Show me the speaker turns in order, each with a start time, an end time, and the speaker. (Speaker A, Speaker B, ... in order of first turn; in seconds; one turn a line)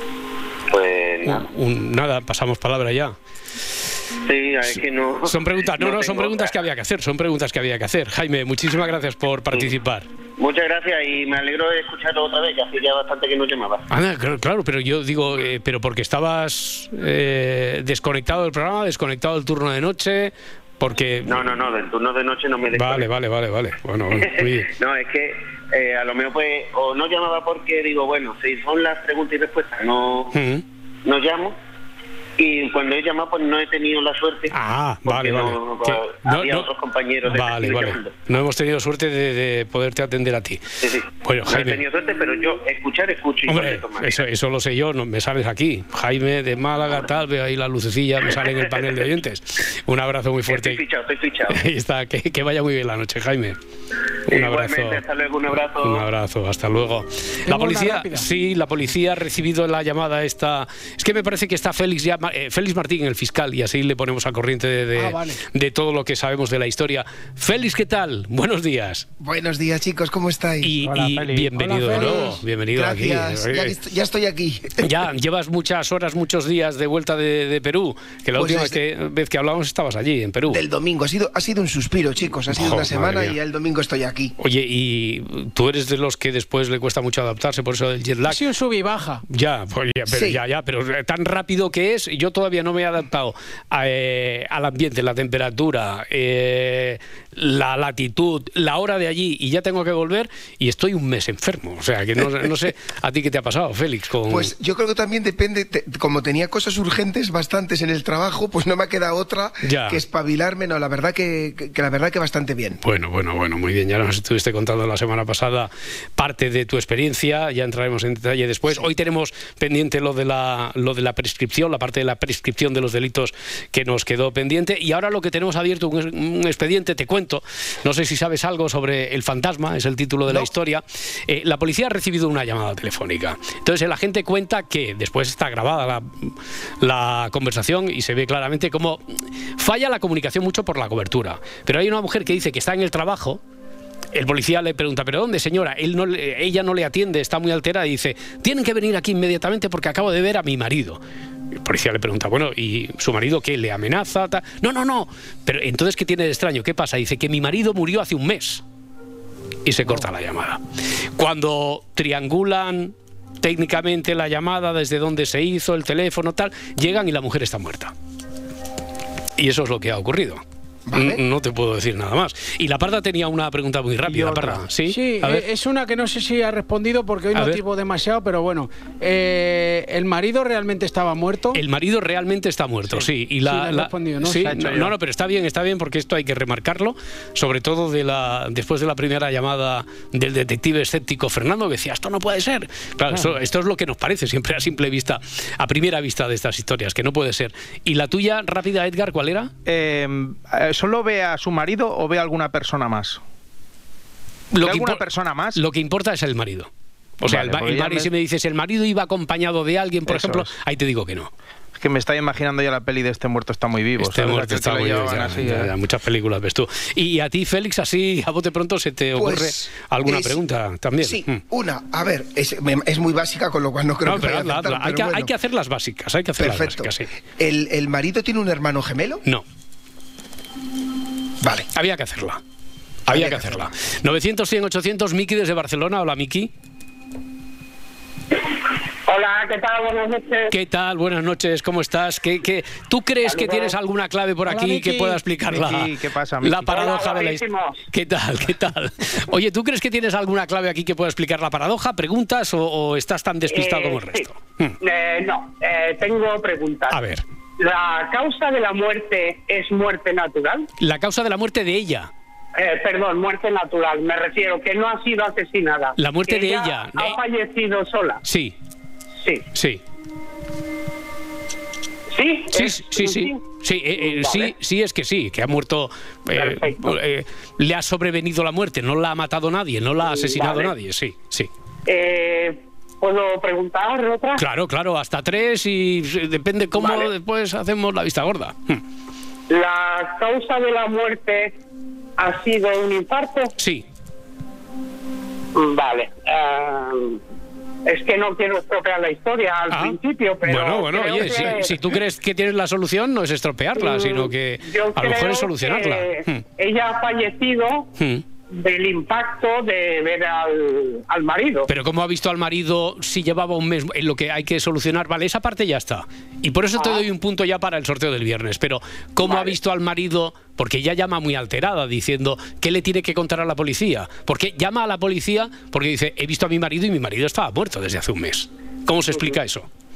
Speaker A: 0.7-1.5
Speaker B: 1.2-3.1
Speaker A: 4.2-6.5
Speaker B: 5.3-10.1
Speaker A: 10.4-13.9
Speaker B: 13.9-21.6
Speaker A: 21.3-23.1
Speaker B: 22.7-24.7
Speaker A: 24.1-30.4
Speaker B: 30.3-30.6
Speaker A: 31.1-31.6
Speaker A: 32.4-38.1
Speaker B: 34.5-36.7
Speaker B: 37.3-40.6
Speaker A: 40.8-44.2
Speaker B: 41.2-41.8
Speaker B: 43.5-50.8
Speaker A: 50.5-51.6
Speaker B: 51.5-53.6
Speaker B: 54.3-55.0
Speaker A: 54.3-56.1
Speaker B: 55.8-69.1
Speaker C: 57.5-58.3
Speaker C: 65.0-65.4
Speaker D: 69.2-70.7
Speaker B: 70.6-73.8
Speaker E: 70.8-71.8
Speaker C: 71.6-72.4
Speaker D: 71.9-74.9
Speaker B: 74.8-80.6
Speaker D: 78.3-78.8
Speaker D: 80.5-84.3
Speaker B: 82.5-83.4
Speaker B: 84.4-88.4
Speaker C: 88.3-89.2
Speaker B: 89.3-104.5
Speaker D: 90.1-90.4
Speaker D: 104.3-112.8
Speaker B: 109.6-110.0
Speaker B: 112.8-139.0
Speaker B: 139.6-143.4
Speaker B: 144.1-151.0
Speaker B: 151.5-158.6
Speaker B: 159.7-160.6
Speaker B: 161.2-167.9
Speaker B: 169.4-170.4
Speaker D: 170.9-171.2
Speaker B: 170.9-175.4
Speaker E: 174.1-174.5
Speaker C: 174.9-181.6
Speaker B: 177.3-177.6
Speaker B: 181.5-199.5
Speaker C: 183.4-184.5
Speaker E: 184.4-184.9
Speaker E: 199.7-203.2
Speaker B: 204.5-205.0
Speaker E: 204.6-205.6
Speaker B: 205.5-206.7
Speaker B: 207.2-211.3
Speaker E: 207.2-208.1
Speaker E: 210.1-210.5
Speaker E: 211.8-215.7
Speaker B: 214.0-221.4
Speaker D: 219.2-220.4
Speaker D: 221.0-225.3
Speaker B: 224.1-227.1
Speaker D: 226.4-229.2
Speaker D: 231.4-231.7
Speaker B: 231.7-232.4
Speaker B: 233.1-236.5
Speaker D: 233.1-233.7
Speaker F: 239.1-240.5
Speaker B: 240.5-254.8
Speaker F: 243.2-243.7
Speaker C: 244.5-245.2
Speaker E: 245.5-246.9
Speaker F: 246.7-247.8
Speaker F: 253.5-254.3
Speaker F: 254.8-257.0
Speaker B: 256.9-257.2
Speaker F: 257.6-260.7
Speaker B: 260.8-262.1
Speaker F: 262.6-268.2
Speaker B: 266.0-267.2
Speaker B: 268.2-268.6
Speaker B: 269.5-269.8
Speaker F: 272.1-273.4
Speaker B: 272.5-281.5
Speaker F: 274.0-274.5
Speaker F: 276.4-276.9
Speaker F: 280.0-280.7
Speaker F: 281.9-284.4
Speaker B: 284.4-288.8
Speaker F: 286.8-287.1
Speaker F: 289.5-291.6
Speaker F: 292.2-293.5
Speaker B: 293.6-293.9
Speaker F: 295.6-297.2
Speaker F: 297.9-301.9
Speaker B: 299.7-306.4
Speaker F: 303.8-307.9
Speaker B: 308.0-308.2
Speaker F: 308.5-311.7
Speaker B: 311.7-329.7
Speaker F: 316.8-317.0
Speaker F: 319.2-319.6